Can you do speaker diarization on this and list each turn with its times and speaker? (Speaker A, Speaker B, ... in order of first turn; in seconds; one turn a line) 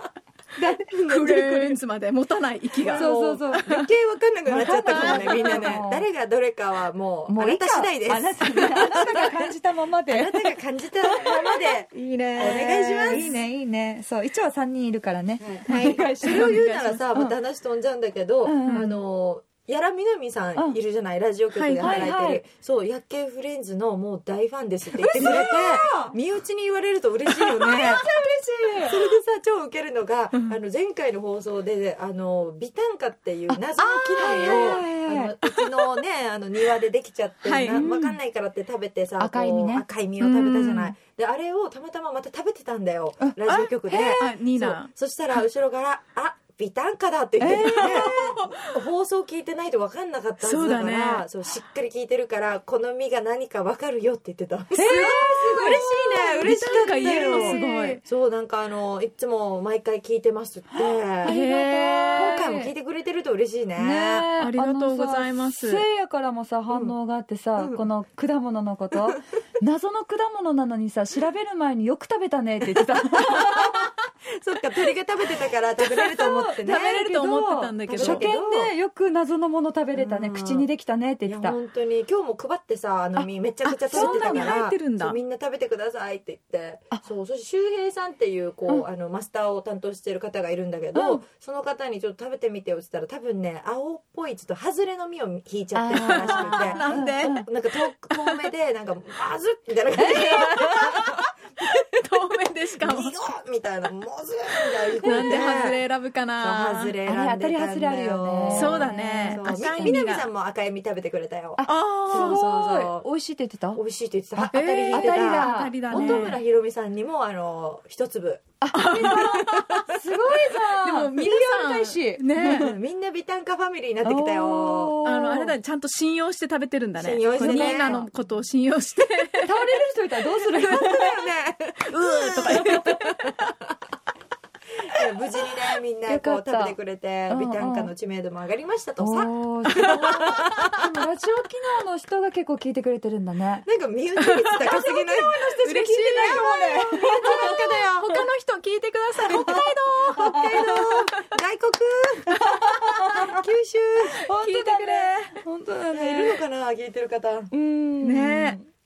Speaker A: 0.6-1.5
Speaker B: 0.9-1.8
Speaker C: 1.1-3.1
Speaker B: 2.8-9.5
Speaker A: 2.9-3.8
Speaker A: 4.5-6.1
Speaker C: 4.7-5.8
Speaker A: 7.3-10.6
Speaker B: 10.1-13.3
Speaker A: 11.1-11.6
Speaker C: 11.3-13.4
Speaker A: 12.4-16.6
Speaker B: 15.4-28.1
Speaker C: 15.7-17.0
Speaker A: 18.4-18.9
Speaker C: 18.7-19.0
Speaker C: 21.5-22.1
Speaker A: 21.8-22.4
Speaker A: 25.0-26.2
Speaker A: 27.3-29.1
Speaker B: 28.8-61.4
Speaker A: 33.5-35.9
Speaker C: 34.1-34.8
Speaker C: 37.4-37.9
Speaker A: 37.7-38.2
Speaker A: 39.2-39.9
Speaker C: 40.2-40.9
Speaker A: 43.2-44.2
Speaker C: 43.5-44.9
Speaker A: 47.4-48.1
Speaker C: 47.4-48.8
Speaker C: 50.4-51.2
Speaker A: 54.7-58.0
Speaker C: 54.9-58.0
Speaker A: 60.7-62.7
Speaker C: 61.2-62.5
Speaker B: 62.1-64.3
Speaker A: 63.8-73.8
Speaker C: 64.4-65.9
Speaker B: 67.6-67.8
Speaker B: 73.1-77.0
Speaker A: 75.8-81.6
Speaker C: 76.7-78.3
Speaker B: 77.9-78.7
Speaker B: 79.9-80.7
Speaker B: 81.3-101.8
Speaker C: 83.7-85.2
Speaker A: 83.8-84.6
Speaker A: 90.9-91.2
Speaker A: 95.7-97.5
Speaker C: 95.9-98.5
Speaker A: 100.0-101.1
Speaker C: 100.2-103.2
Speaker B: 102.8-105.8
Speaker C: 105.0-107.0
Speaker A: 105.0-105.3
Speaker B: 106.4-113.1
Speaker A: 107.0-110.0
Speaker C: 108.5-110.3
Speaker A: 111.6-113.8
Speaker C: 111.7-112.4
Speaker B: 113.8-119.8
Speaker A: 114.4-116.4
Speaker C: 114.5-116.4
Speaker A: 118.6-122.7
Speaker C: 118.7-122.7
Speaker B: 122.4-125.0
Speaker A: 124.0-125.6
Speaker C: 125.0-129.6
Speaker B: 127.0-128.1
Speaker A: 127.4-128.1
Speaker A: 129.4-131.0
Speaker B: 130.4-133.5
Speaker C: 130.6-131.0
Speaker C: 131.9-133.3
Speaker A: 132.5-132.8
Speaker B: 134.8-140.8
Speaker A: 136.1-136.8
Speaker A: 137.3-137.9
Speaker A: 139.0-143.7
Speaker B: 143.7-148.1
Speaker C: 144.2-144.7
Speaker A: 144.6-148.3
Speaker C: 145.6-151.3
Speaker A: 149.3-150.9
Speaker B: 149.3-154.2
Speaker A: 152.5-153.3
Speaker C: 154.2-155.4
Speaker A: 154.2-156.4
Speaker B: 155.9-157.5
Speaker A: 157.5-158.7
Speaker C: 158.0-158.6